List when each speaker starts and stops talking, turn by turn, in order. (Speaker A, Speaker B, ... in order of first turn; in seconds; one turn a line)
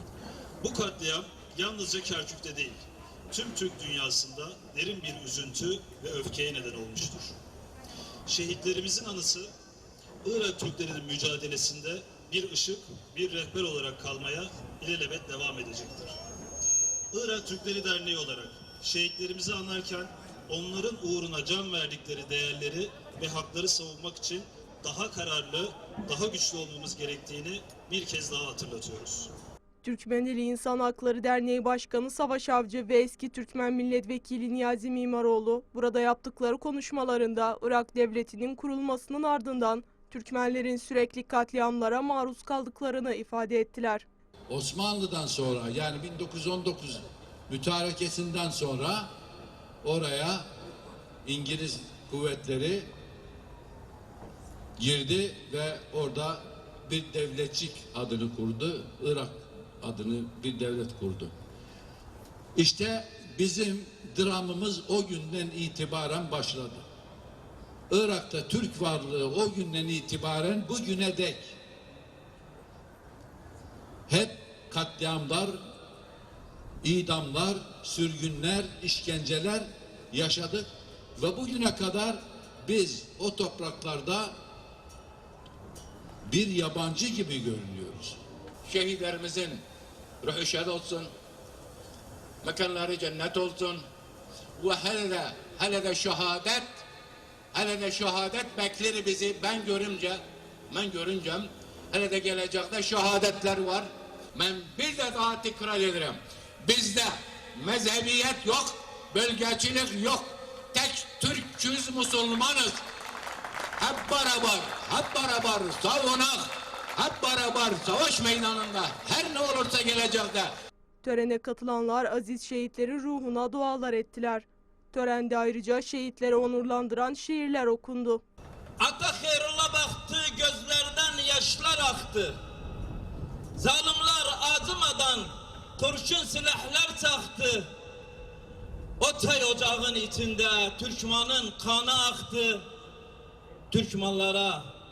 Speaker A: 0.6-7.4
Speaker A: 8.2-9.5
Speaker A: 10.2-16.2
Speaker A: 17.1-29.3
Speaker B: 29.8-44.0
Speaker C: 44.5-49.1
Speaker C: 49.8-50.5
Speaker C: 51.2-52.9
Speaker C: 54.8-61.3
Speaker C: 62.5-66.8
Speaker C: 67.9-71.6
Speaker C: 74.1-75.6
Speaker C: 76.8-84.3
Speaker C: 86.3-88.2
Speaker D: 88.7-89.6
Speaker D: 90.2-91.1
Speaker D: 92.4-93.8
Speaker D: 94.6-96.8
Speaker D: 97.5-112.8
Speaker D: 113.8-120.5
Speaker B: 121.0-128.2
Speaker E: 128.8-132.4
Speaker E: 133.5-137.7
Speaker E: 139.0-142.7
Speaker E: 143.7-144.7